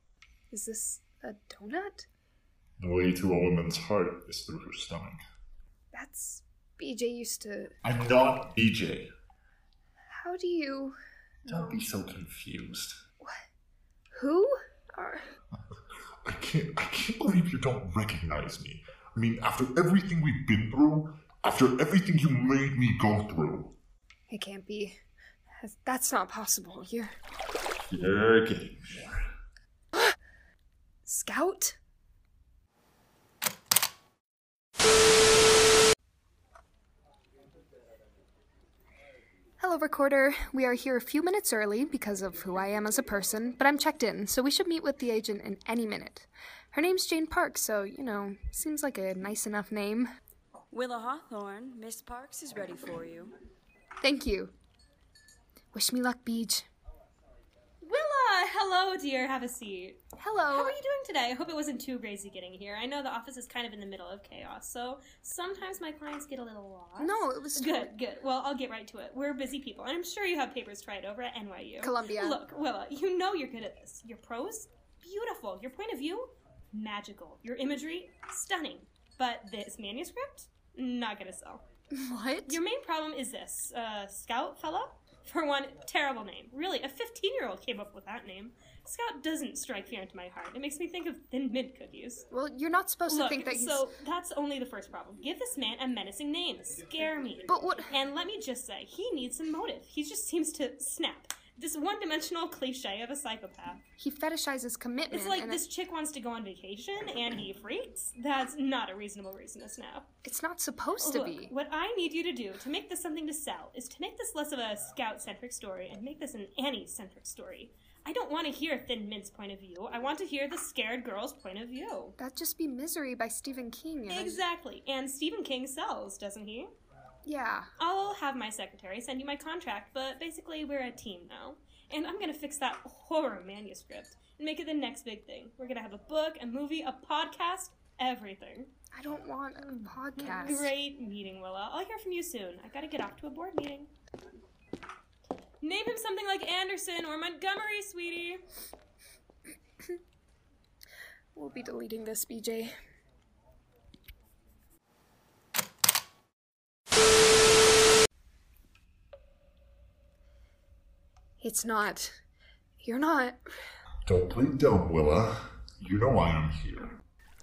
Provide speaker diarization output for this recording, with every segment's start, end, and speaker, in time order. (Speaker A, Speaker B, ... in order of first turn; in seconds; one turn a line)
Speaker A: 0.5-2.1
Speaker B: 2.8-5.2
Speaker A: 5.9-7.7
Speaker B: 7.8-9.1
Speaker A: 10.1-11.8
Speaker B: 11.5-13.0
Speaker A: 14.1-15.2
Speaker B: 16.2-23.7
Speaker A: 24.3-25.0
Speaker A: 25.6-27.1
Speaker B: 27.9-29.2
Speaker A: 31.1-31.8
Speaker A: 39.6-50.1
Speaker C: 50.7-53.3
Speaker A: 54.0-54.5
Speaker A: 55.7-56.6
Speaker D: 57.8-60.0
Speaker A: 60.1-60.8
Speaker D: 60.5-81.6
Speaker A: 67.0-67.9
Speaker A: 71.8-72.4
Speaker A: 81.9-82.6
Speaker D: 82.5-92.3
Speaker A: 92.3-93.9
Speaker D: 93.1-103.8
Speaker A: 97.5-97.9
Speaker A: 104.0-105.7
Speaker D: 105.1-110.1
Speaker A: 110.2-111.5
Speaker D: 111.0-122.2
Speaker A: 122.2-124.4
Speaker D: 124.1-126.7
Speaker A: 127.2-127.7
Speaker D: 127.8-138.7
Speaker A: 138.9-140.7
Speaker D: 140.2-143.9
Speaker D: 145.6-148.4
Speaker A: 151.3-152.7
Speaker A: 161.4-162.2
Speaker A: 162.8-163.4
Speaker B: 164.1-166.9